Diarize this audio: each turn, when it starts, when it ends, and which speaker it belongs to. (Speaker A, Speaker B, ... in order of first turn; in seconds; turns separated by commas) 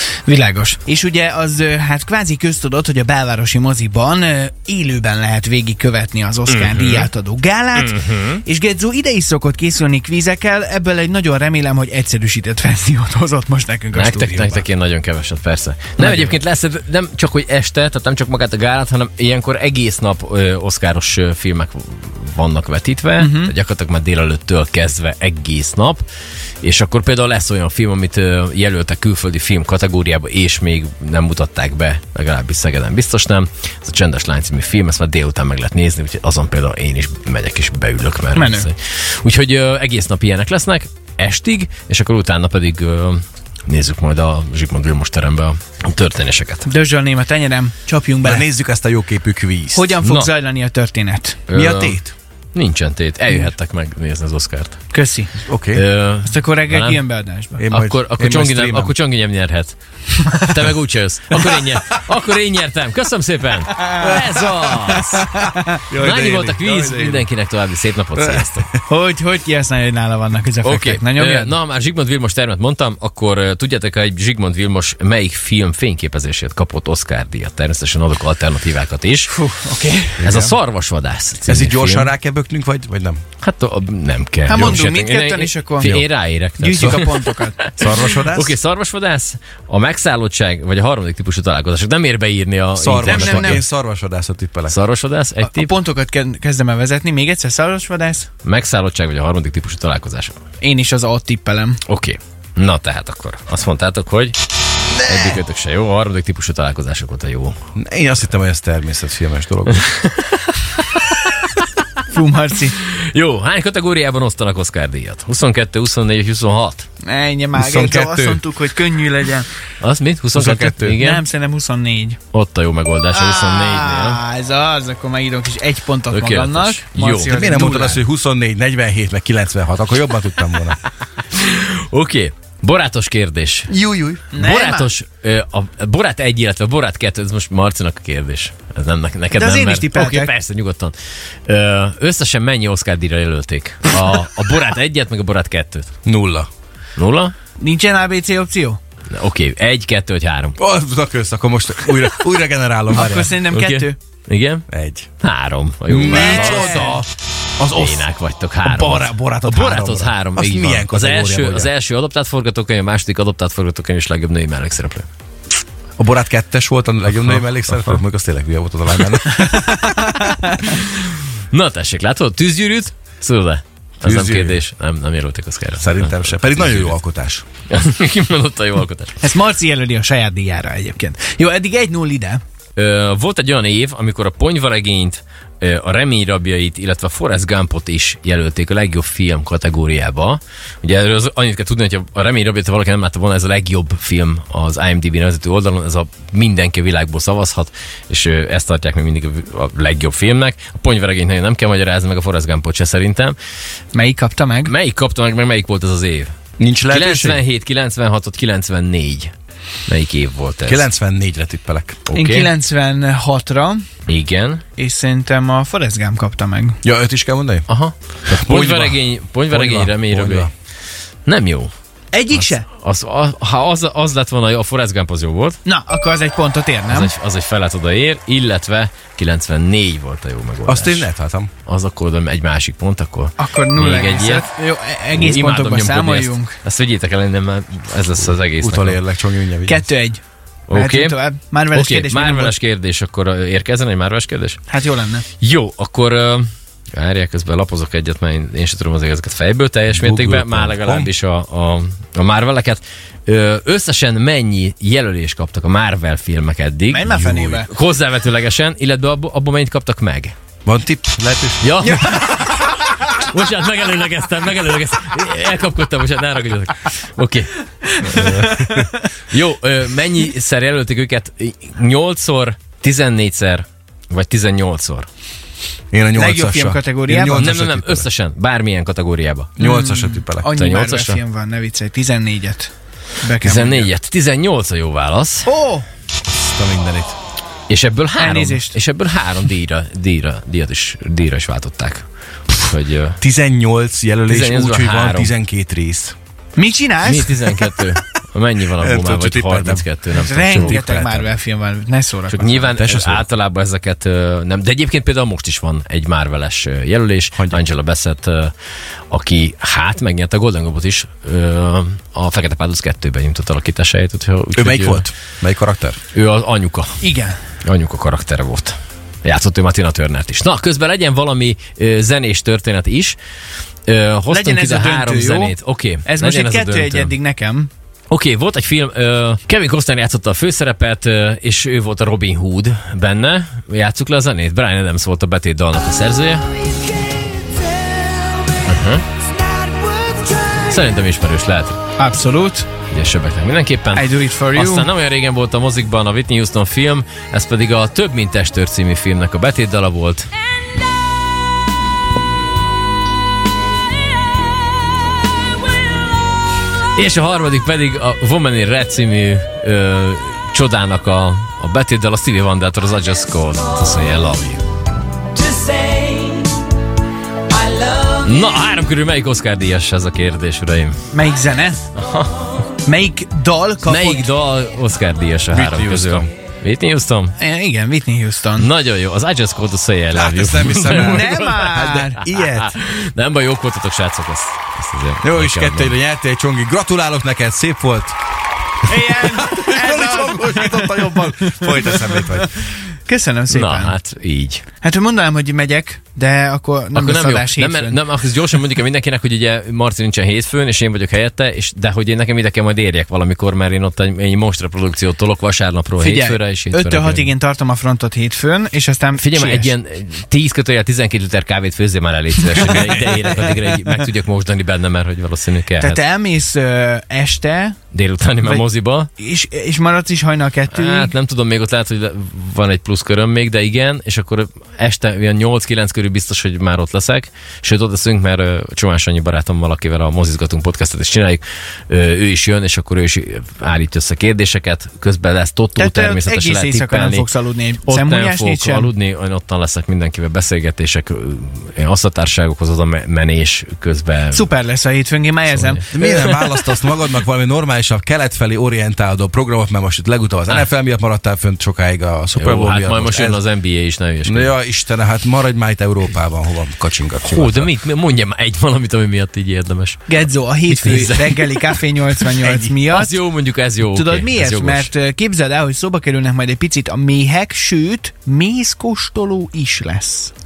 Speaker A: 0.2-14.7, Speaker B: 6.5-7.1, Speaker B: 7.8-8.4, Speaker B: 13.9-26.0, Speaker A: 16.0-16.3, Speaker A: 23.2-23.5, Speaker B: 26.6-46.7, Speaker A: 38.3-38.7, Speaker A: 46.6-48.5, Speaker C: 48.2-50.0, Speaker A: 49.7-51.4, Speaker B: 50.0-50.3, Speaker B: 51.5-52.0, Speaker C: 51.5-52.1, Speaker B: 52.5-54.8, Speaker A: 54.9-55.3, Speaker C: 55.5-55.8, Speaker B: 55.7-57.0, Speaker A: 56.2-57.6, Speaker C: 57.6-58.9, Speaker B: 57.7-59.8, Speaker A: 60.1-60.5, Speaker B: 60.3-65.3, Speaker A: 63.7-64.2, Speaker C: 64.0-67.3, Speaker A: 64.9-65.8, Speaker B: 65.9-68.7, Speaker C: 68.1-68.8, Speaker A: 68.9-71.5, Speaker B: 70.6-79.3, Speaker A: 79.3-80.3, Speaker C: 80.2-80.5, Speaker B: 80.2-82.1, Speaker C: 81.5-83.2, Speaker B: 83.4-93.6, Speaker A: 84.5-85.9, Speaker C: 84.5-84.8, Speaker C: 85.8-86.1, Speaker A: 86.6-87.6, Speaker C: 86.7-87.0, Speaker C: 87.8-88.5, Speaker C: 92.8-94.8, Speaker A: 93.0-93.6, Speaker B: 94.7-95.7, Speaker A: 95.4-98.3, Speaker B: 98.4-100.3, Speaker A: 100.6-101.8, Speaker B: 101.9-104.3, Speaker C: 104.9-105.4, Speaker B: 105.0-107.6, Speaker C: 107.8-109.9, Speaker B: 109.8-111.6, Speaker A: 112.1-112.8, Speaker B: 112.9-116.9, Speaker A: 117.0-119.5, Speaker C: 117.5-118.4, Speaker B: 119.8-121.2, Speaker C: 120.3-121.0, Speaker A: 121.0-122.2, Speaker B: 122.3-124.2, Speaker A: 123.1-128.0, Speaker B: 126.1-127.4, Speaker C: 127.2-130.8, Speaker B: 131.3-133.7, Speaker C: 133.7-134.3, Speaker A: 134.3-134.9, Speaker B: 134.3-140.9, Speaker A: 139.3-140.3, Speaker B: 141.5-145.9, Speaker C: 146.1-146.5, Speaker B: 147.0-147.3, Speaker A: 147.6-148.8, Speaker B: 149.1-150.6, Speaker C: 150.6-153.4, Speaker A: 152.9-154.0, Speaker B: 153.5-154.7, Speaker C: 154.7-155.1, Speaker B: 155.2-157.0, Speaker C: 155.9-157.1, Speaker A: 156.1-157.0, Speaker C: 157.6-158.1, Speaker B: 157.7-165.1, Speaker C: 158.6-161.7, Speaker C: 166.0-170.3, Speaker B: 167.3-168.0, Speaker A: 169.3-170.7, Speaker B: 170.6-176.9, Speaker C: 174.0-174.6, Speaker C: 175.8-177.4, Speaker B: 177.7-179.2, Speaker A: 179.2-182.4, Speaker B: 182.8-203.3, Speaker A: 203.9-204.7, Speaker B: 204.6-206.3, Speaker C: 206.6-207.4, Speaker B: 206.9-209.3, Speaker B: 209.9-210.8, Speaker C: 210.7-212.0, Speaker B: 212.1-212.5, Speaker A: 212.1-213.8, Speaker B: 214.1-214.6, Speaker A: 214.8-216.8, Speaker C: 216.8-217.7, Speaker B: 217.7-220.5, Speaker C: 218.3-220.5, Speaker B: 221.2-221.7, Speaker A: 222.1-222.7, Speaker B: 222.3-225.6, Speaker A: 225.6-227.1, Speaker B: 226.9-231.1, Speaker C: 230.7-231.5, Speaker B: 231.7-234.5, Speaker A: 233.4-236.6, Speaker B: 235.1-239.0, Speaker C: 238.5-239.8, Speaker A: 239.7-242.5, Speaker B: 240.7-241.2, Speaker B: 241.7-244.6, Speaker A: 244.7-245.2, Speaker B: 245.4-260.3, Speaker C: 249.9-251.1, Speaker A: 256.9-257.7, Speaker C: 257.1-257.6, Speaker C: 260.6-261.7, Speaker B: 261.6-268.4, Speaker A: 261.9-262.5, Speaker A: 267.9-269.0, Speaker C: 268.1-268.9, Speaker B: 269.3-275.1, Speaker C: 275.9-278.1, Speaker A: 276.1-277.4, Speaker B: 277.4-279.5, Speaker C: 279.6-280.5, Speaker A: 279.6-283.9, Speaker B: 280.4-281.2, Speaker B: 283.4-285.5, Speaker A: 285.4-285.9, Speaker C: 286.3-287.1, Speaker B: 287.7-293.2, Speaker A: 288.1-288.8, Speaker C: 293.2-296.1, Speaker B: 294.3-295.3, Speaker A: 296.6-297.4, Speaker B: 297.0-300.8, Speaker C: 298.8-301.3, Speaker A: 300.1-302.7, Speaker B: 302.3-308.5, Speaker C: 302.8-303.2, Speaker B: 309.1-315.1, Speaker C: 314.5-316.0, Speaker B: 316.1-317.0, Speaker A: 317.0-317.4, Speaker B: 317.6-323.2, Speaker B: 323.9-327.1, Speaker A: 324.3-327.7, Speaker B: 328.1-336.5, Speaker B: 338.6-339.1, Speaker B: 340.6-341.8, Speaker A: 342.0-342.7, Speaker B: 342.9-350.3, Speaker A: 343.9-344.9, Speaker B: 356.9-364.6, Speaker B: 368.0-370.9, Speaker A: 371.1-371.8, Speaker B: 371.9-372.6, Speaker A: 372.8-374.3, Speaker B: 373.8-377.4, Speaker C: 375.5-376.3, Speaker A: 377.4-378.7, Speaker B: 378.6-386.0, Speaker C: 380.1-382.7, Speaker A: 380.9-382.2, Speaker C: 385.2-388.1, Speaker A: 388.8-394.0, Speaker C: 389.1-392.5, Speaker B: 393.5-394.6, Speaker A: 394.8-398.0, Speaker B: 396.9-407.3, Speaker A: 406.0-409.7, Speaker B: 409.1-416.0, Speaker A: 412.4-413.8, Speaker A: 415.8-417.8, Speaker B: 417.9-419.1, Speaker A: 419.2-421.1, Speaker B: 420.7-437.3, Speaker A: 435.8-438.9, Speaker B: 437.9-444.5, Speaker A: 444.3-445.8, Speaker B: 445.5-446.5, Speaker C: 445.9-453.4, Speaker B: 452.4-454.5, Speaker C: 454.2-457.7, Speaker B: 457.2-460.1, Speaker A: 460.1-463.1, Speaker B: 460.7-464.9, Speaker A: 463.8-470.3